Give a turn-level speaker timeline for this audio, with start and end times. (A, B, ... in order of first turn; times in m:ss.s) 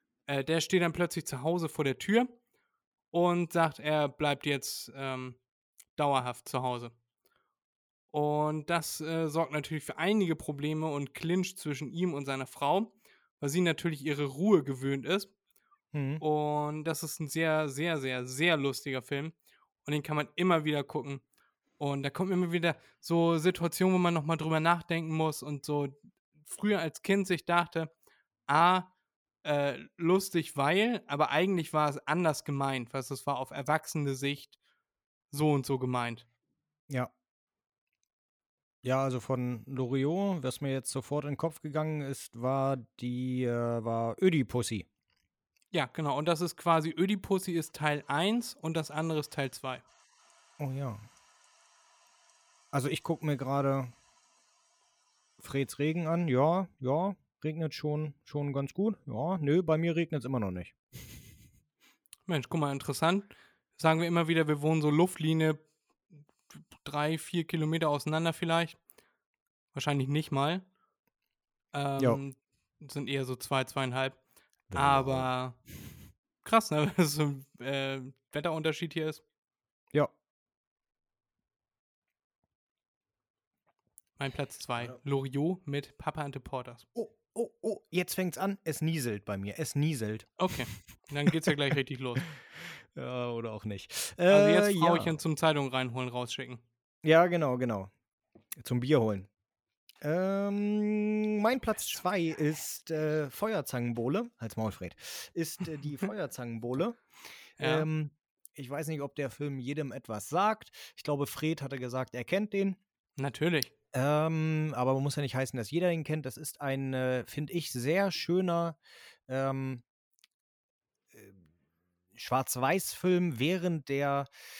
0:00.3-0:02.3 A
0:03.1-0:05.4 A
0:06.0-0:06.9 A
0:08.1-0:15.3 A
0:15.9-0:16.2 B
0:16.2-0:19.3 A
0:19.8-0:21.2 A
0:21.8-0:27.9 A
0:28.5-0:28.9 A
0:29.4-0:34.6 A
0:35.3-0:36.2 A
0:38.8-0:44.8 B
0:45.7-0:49.8 A
0:50.6-0:51.0 B
0:52.7-0:53.9 B
0:55.4-1:00.7 B
1:02.3-1:05.6 A
1:06.8-1:08.8 A
1:09.7-1:10.6 A
1:11.7-1:14.2 A
1:14.7-1:15.3 B
1:14.7-1:15.6 A
1:16.4-1:19.2 A
1:24.2-1:26.8 A
1:26.9-1:30.4 B
1:30.4-1:32.2 A
1:31.3-1:31.5 B
1:32.3-1:35.2 B
1:34.3-1:36.6 A
1:37.0-1:37.9 B
1:38.6-1:39.3 B
1:40.0-1:47.0 B
1:47.6-1:47.9 A
1:47.6-1:52.8 B
1:53.2-1:53.7 A
1:53.9-1:59.8 B
2:01.1-2:01.4 B
2:02.1-2:04.3 B